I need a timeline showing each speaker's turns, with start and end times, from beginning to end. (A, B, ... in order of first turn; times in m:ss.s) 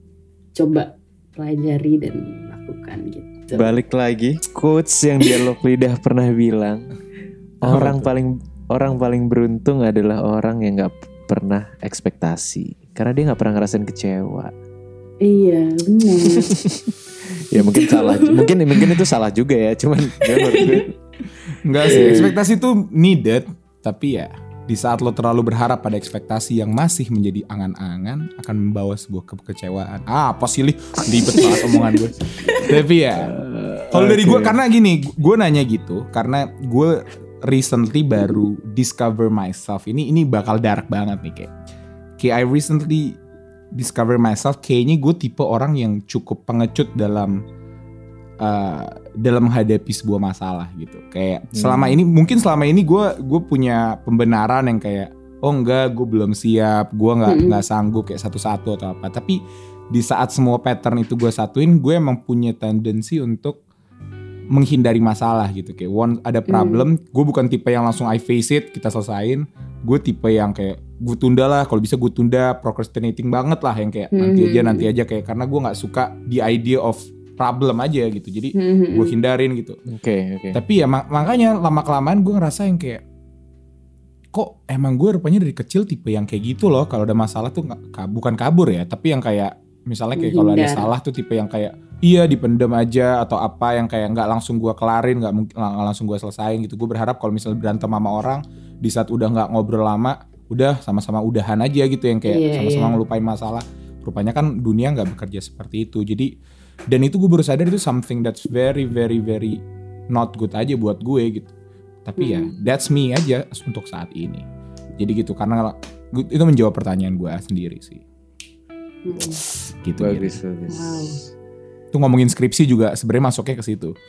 0:00.6-0:03.7 A
0:03.5-0:06.8 B
0:07.6-0:08.1 C
0:07.6-0:14.5 B
0:15.2-0:16.5 A
0:16.3-0:20.9 B
0:17.6-0:19.0 A
0:20.2-0:20.9 A
0:21.6-0:33.3 C
0:21.9-0:22.4 A
0:21.9-0:22.3 B
0:31.4-0:32.0 A
0:32.5-0:32.8 A
0:33.1-0:34.6 B
0:33.9-0:41.5 C
0:42.2-0:43.2 C
0:43.7-0:47.4 C
0:48.4-1:03.6 C
0:51.5-0:52.0 B
0:57.2-0:57.6 A
1:04.5-1:19.8 C
1:06.5-1:06.9 A
1:14.1-1:14.9 A
1:18.6-1:19.2 A
1:19.9-1:20.6 B
1:20.5-1:23.0 C
1:24.3-1:46.3 C
1:30.2-1:30.9 A
1:42.3-1:43.0 A
1:46.9-1:51.5 C
1:52.0-1:54.4 C
1:52.2-1:52.5 A
1:55.0-1:58.0 C
1:59.0-1:59.4 A
1:59.5-2:00.4 C
2:00.0-2:01.0 B
2:00.7-2:01.2 A
2:01.9-2:04.0 C